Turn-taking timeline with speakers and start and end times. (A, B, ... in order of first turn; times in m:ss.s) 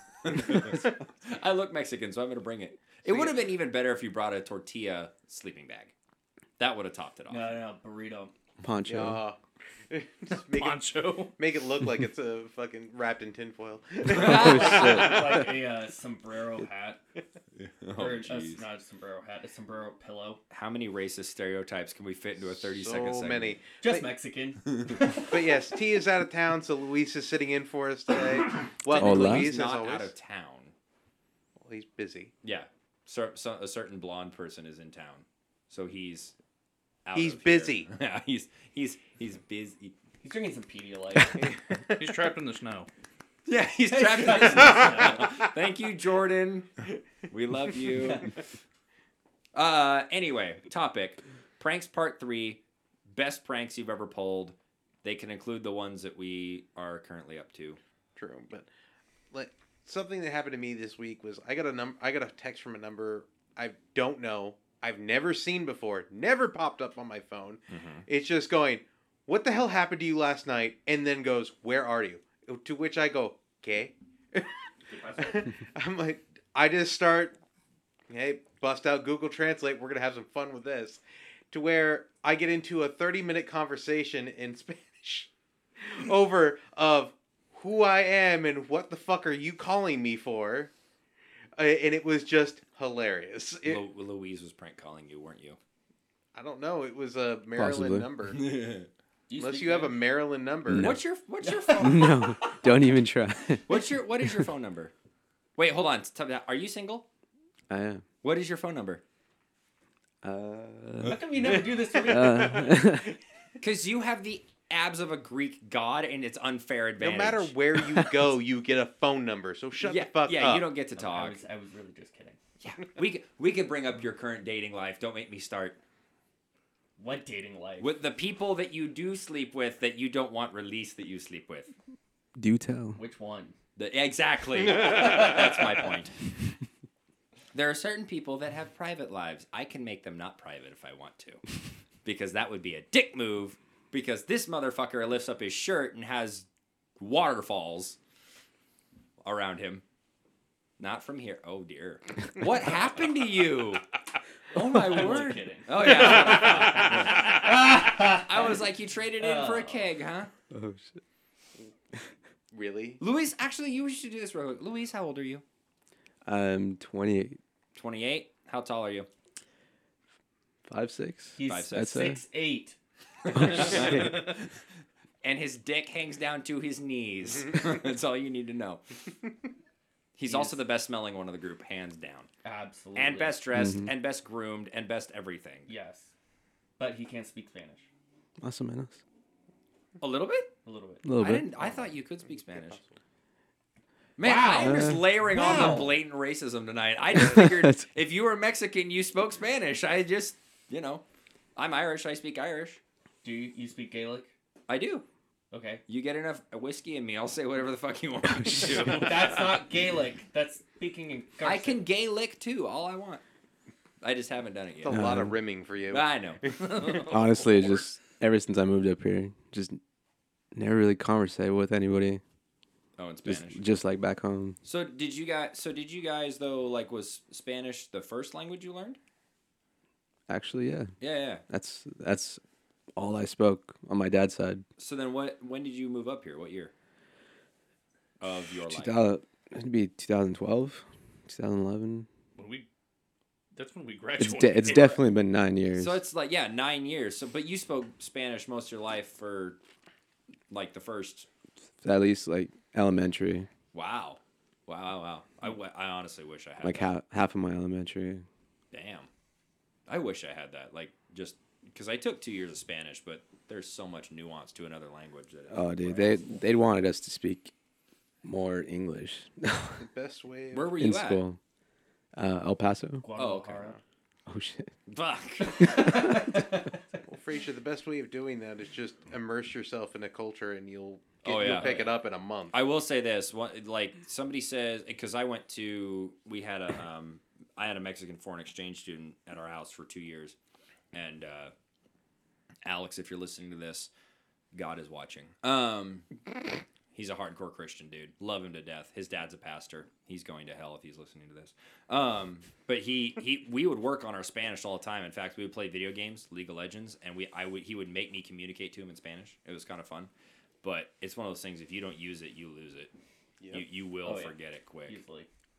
0:00.2-0:05.9 A
0:06.6-0:07.6 A
0:07.3-0:08.3 B
0:08.6-0:09.2 C
0:08.8-0:15.5 D
0:10.3-0:11.4 E
0:14.1-0:15.0 A
0:14.1-0:17.0 B
0:14.2-0:15.1 C
0:17.6-0:18.6 A
0:17.9-0:20.4 B
0:20.5-0:23.6 A
0:22.4-0:24.1 D
0:23.8-0:25.4 B
0:25.2-0:30.1 D
0:28.8-0:30.7 A
0:29.0-0:29.5 C
0:31.6-0:32.3 D
0:32.4-0:36.3 A
0:37.0-0:39.9 A
0:37.1-0:37.9 D
0:40.2-0:41.5 B
0:41.4-0:42.2 D
0:42.0-0:42.9 E
0:43.4-0:48.3 A
0:43.9-0:45.3 B
0:44.8-0:45.2 D
0:48.0-0:48.3 B
0:49.5-0:57.8 A
0:58.2-0:58.7 D
0:59.3-1:17.4 D
1:07.7-1:08.0 A
1:14.9-1:15.5 B
1:18.1-1:21.0 D
1:21.5-1:30.7 D
1:31.6-1:33.8 D
1:33.6-1:35.6 A
1:36.3-1:38.5 D
1:37.6-1:38.1 C
1:38.3-1:38.9 A
1:39.3-1:40.0 B
1:39.4-1:40.9 D
1:40.7-1:41.0 C
1:40.7-1:42.3 A
1:41.4-1:42.6 B
1:41.8-1:44.5 C
1:43.7-1:44.9 A
1:45.6-1:47.0 A
1:47.7-1:48.0 C
1:48.2-1:49.0 A
1:50.2-1:51.5 C
1:51.0-1:52.8 B
1:51.9-1:52.6 D
1:52.1-1:53.1 C
1:53.6-1:58.1 A
1:57.0-2:00.7 D
1:59.8-2:01.4 A
2:01.0-2:02.4 B
2:02.6-2:05.8 A
2:07.0-2:07.9 B
2:07.8-2:11.7 A
2:12.4-2:13.0 C
2:13.0-2:13.5 B
2:13.8-2:16.2 A
2:17.5-2:21.4 A
2:22.0-2:26.4 A
2:27.0-2:28.0 A
2:29.2-2:29.8 A
2:30.8-2:33.9 A
2:34.5-2:40.3 A
2:34.5-2:38.6 B
2:39.2-2:39.9 B
2:40.5-2:40.9 C
2:42.5-2:43.0 D
2:43.0-2:45.4 A
2:46.2-2:47.4 C
2:47.8-2:49.1 A
2:50.6-2:52.2 C
2:51.4-2:52.8 B
2:51.5-2:52.0 A
2:53.2-2:54.4 A
2:53.3-2:54.3 C
2:55.2-2:58.8 A
3:00.2-3:02.3 A
3:00.3-3:00.6 B
3:02.4-3:03.4 B
3:02.9-3:05.7 A
3:03.5-3:03.9 C
3:05.7-3:06.1 B
3:06.8-3:07.9 B
3:08.4-3:09.0 C
3:10.0-3:10.5 A
3:10.6-3:11.1 B
3:11.0-3:11.5 C
3:11.2-3:12.8 A
3:12.4-3:12.9 D
3:14.2-3:21.0 A
3:14.2-3:16.0 B
3:14.6-3:15.0 C
3:17.1-3:17.8 C
3:21.6-3:22.8 A
3:23.2-3:24.3 B
3:24.7-3:25.0 A
3:25.5-3:25.8 B
3:25.9-3:29.5 A
3:28.4-3:29.0 C
3:28.9-3:31.8 B
3:31.4-3:33.2 A
3:34.0-3:35.2 A
3:34.8-3:37.2 D
3:34.9-3:35.3 C
3:35.9-3:37.8 A
3:37.0-3:39.8 C
3:40.5-3:42.2 C
3:43.0-3:43.6 A
3:43.2-3:44.6 C
3:44.6-3:49.0 A
3:50.3-3:50.9 C
3:51.0-3:51.4 A
3:51.5-3:52.4 C
3:53.0-3:54.6 C
3:54.8-3:56.7 A
3:58.2-3:59.0 A
3:58.7-4:02.1 C
4:02.4-4:02.7 E
4:03.5-4:05.0 E
4:04.2-4:06.0 C
4:04.6-4:04.9 A
4:05.7-4:09.6 A
4:10.5-4:11.3 A
4:11.8-4:13.5 C
4:13.7-4:16.9 A
4:16.6-4:18.2 C
4:18.7-4:19.1 A
4:19.9-4:26.2 A
4:25.5-4:27.5 C
4:28.2-4:29.8 C
4:29.8-4:30.7 D
4:30.5-4:31.2 A
4:30.8-4:31.4 C
4:32.2-4:33.0 C
4:33.0-4:33.8 B
4:33.2-4:33.7 A
4:34.3-4:34.7 C
4:34.9-4:36.2 A
4:35.4-4:36.7 B
4:37.0-4:42.6 D
4:41.2-4:41.8 A
4:41.3-4:41.9 B
4:42.5-4:50.4 A
4:50.9-4:51.5 A
4:52.6-4:53.9 A
4:54.5-4:56.1 A
4:56.9-5:10.1 A
5:10.6-5:12.9 A
5:13.5-5:15.0 A
5:14.0-5:15.3 B